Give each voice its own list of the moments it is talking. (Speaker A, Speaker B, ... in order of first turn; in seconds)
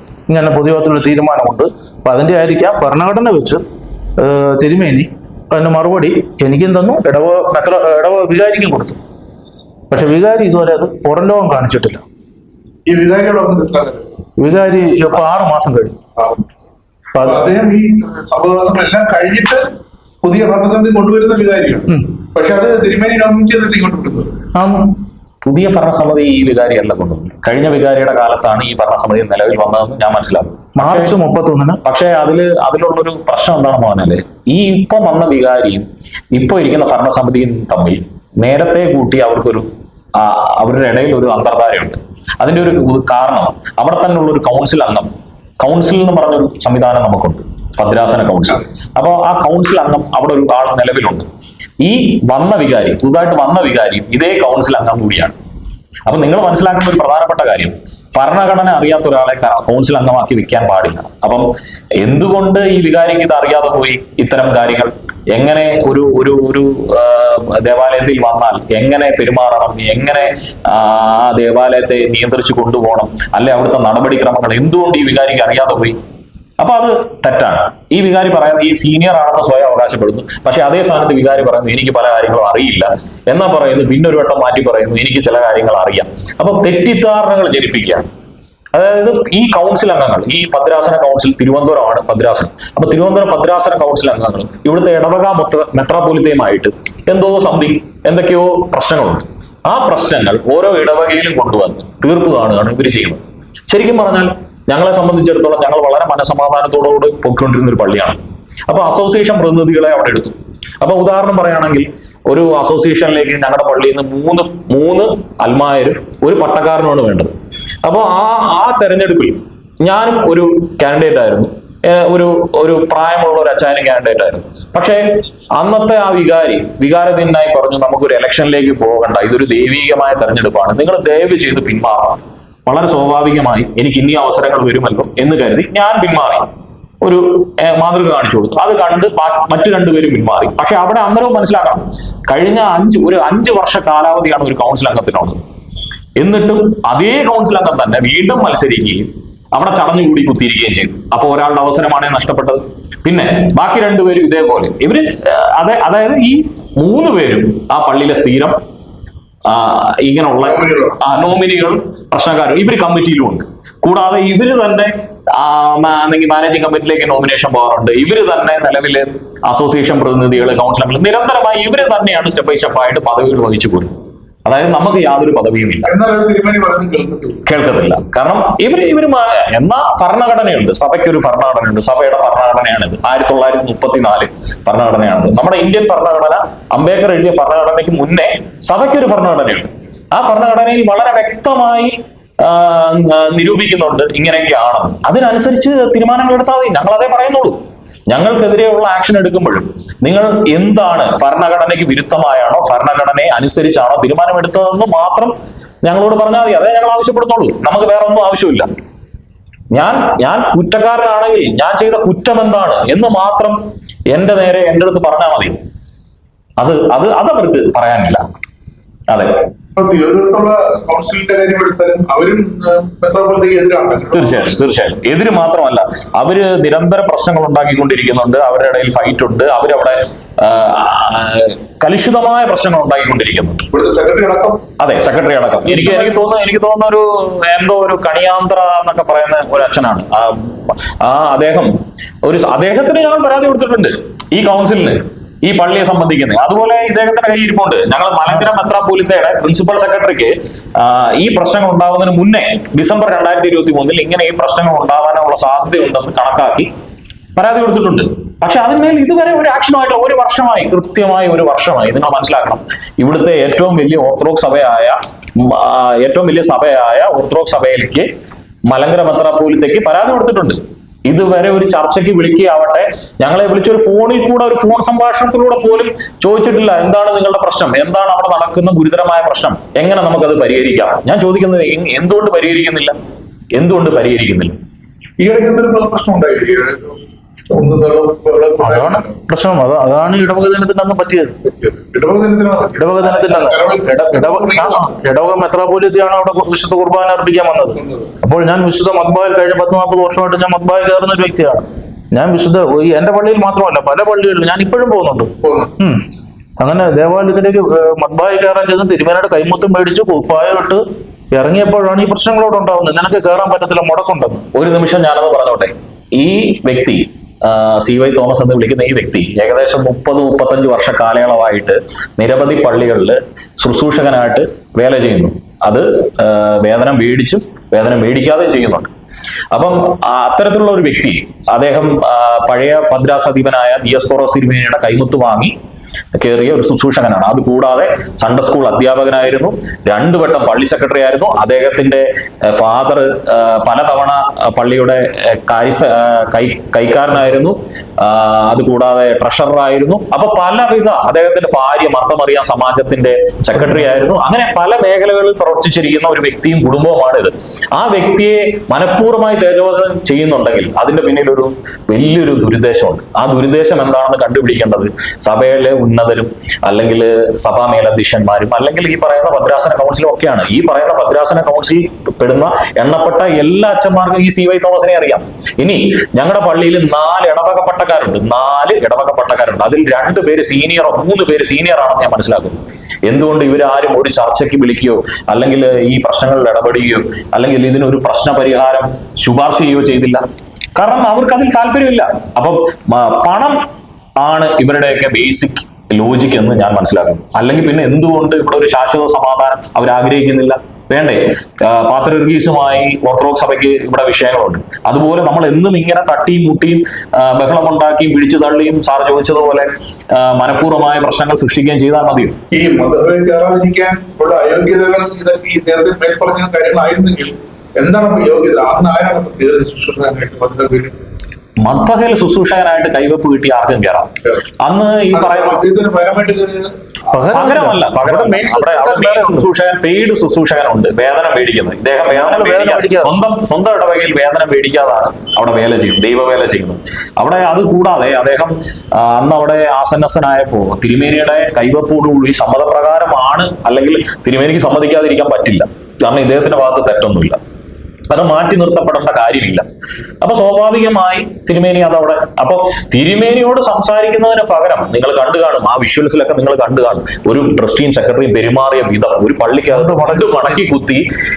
Speaker A: 0.3-3.6, 4.2-9.0, 9.9-12.0, 14.4-15.9, 17.1-17.5, 24.5-24.9, 30.8-31.8, 288.6-291.4, 292.8-306.0, 306.6-314.4, 427.1-429.5, 432.1-433.1, 459.7-460.6
Speaker B: 12.8-14.1, 16.2-16.5, 17.2-19.6, 20.2-24.4, 160.4-161.0, 175.8-177.4, 219.7-224.6, 233.7-234.6, 235.6-236.2, 285.2-289.2, 291.5-294.9, 297.8-298.1, 305.4-305.7, 412.5-420.9, 425.1-426.7
Speaker C: 25.4-31.1, 31.8-45.1, 45.6-51.2, 51.8-55.3, 56.1-61.5, 62.0-76.0, 76.6-88.1, 88.7-117.3, 117.8-125.0, 125.5-136.5, 137.0-145.4, 146.2-158.6, 159.4-173.9, 174.4-175.9, 177.4-197.6, 198.1-205.3, 205.8-208.7, 209.7-213.6, 214.1-215.6, 216.6-218.2, 219.1-219.4, 224.1-233.6, 234.8-256.7, 257.4-268.1, 268.7-282.9, 283.5-284.5, 314.5-328.9, 329.5-335.5, 336.2-390.2, 390.8-393.6, 394.2-412.3, 421.6-424.1, 424.6-425.6, 427.3-447.4, 448.1-449.6, 450.2-461.0